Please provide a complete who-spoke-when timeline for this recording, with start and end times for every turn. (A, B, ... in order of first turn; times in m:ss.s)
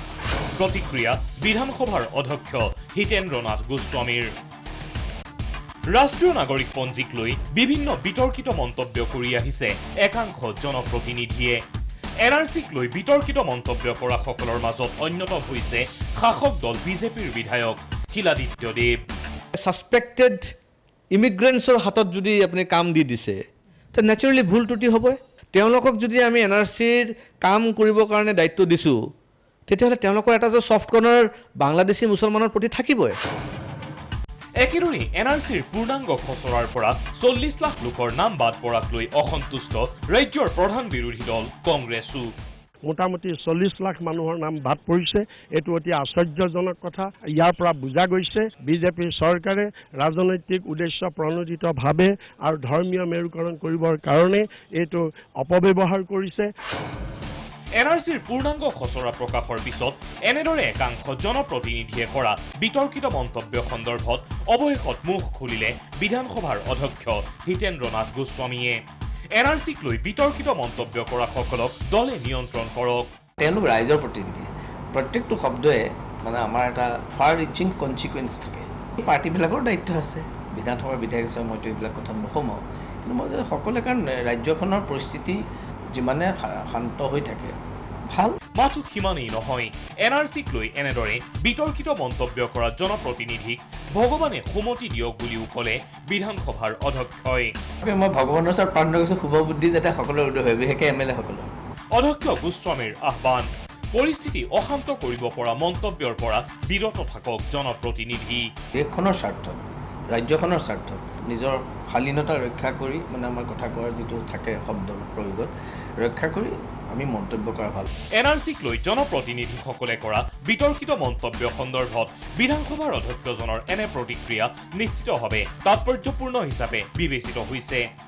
0:00.6-0:04.3 A
0:05.9-0:11.6 A
0:12.2-0:18.9 A
0:19.6-0:20.4 B
0:21.1-0:23.4 B
0:23.9-0:29.0 B
0:29.7-0:33.2 B
0:34.6-0:42.3 A
0:42.9-0:56.5 C
0:57.8-1:08.8 A
1:09.4-1:13.1 A
1:13.4-1:25.4 D
1:25.9-1:27.5 D
1:28.1-1:28.4 D
1:28.6-1:37.5 A
1:37.8-1:41.5 D
1:42.0-1:48.4 A
1:48.8-1:57.9 D
1:58.2-2:07.8 A